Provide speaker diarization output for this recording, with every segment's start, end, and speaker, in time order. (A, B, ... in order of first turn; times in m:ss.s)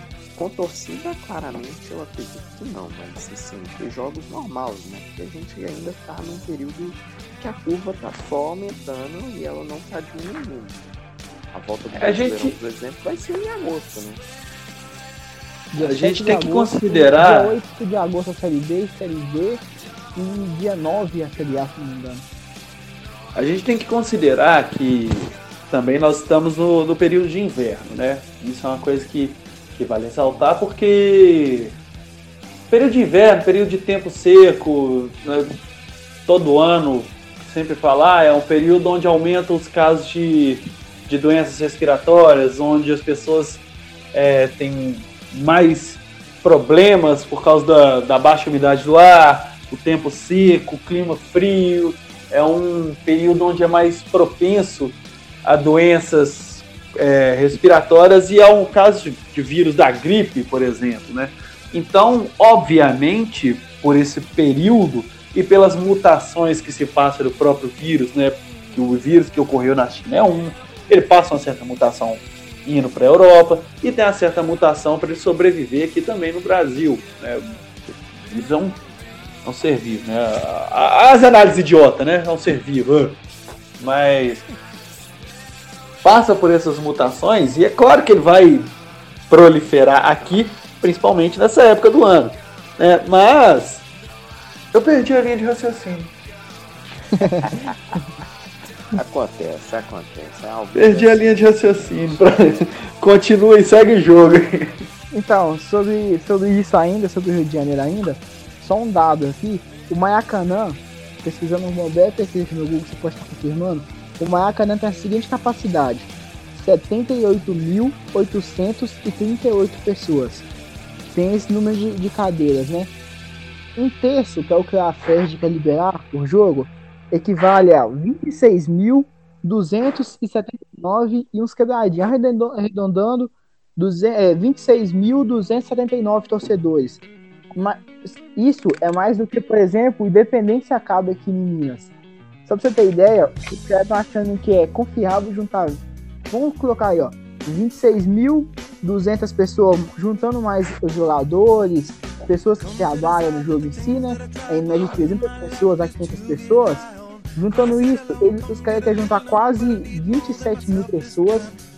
0:00.4-0:10.9 A
0:11.5-0:14.2 A
0:11.9-0:12.5 B
0:15.7-0:19.6 C
0:15.8-0:17.6 B
0:20.1-0:22.2 C
0:23.3-0:31.7 B
0:32.7-0:35.5 B
0:36.2-1:17.5 B
1:18.3-1:18.8 B
1:19.4-1:23.2 B
1:23.8-1:24.4 B
1:26.0-1:28.7 B
1:29.3-1:33.8 B
1:34.7-1:36.1 B
1:37.2-1:37.5 C
1:37.4-1:38.0 A
1:38.9-1:42.6 A
1:40.7-1:44.8 B
1:45.1-2:00.4 C
2:01.1-2:02.9 C
2:03.8-2:17.0 C
2:17.5-2:21.9 C
2:22.4-2:41.5 C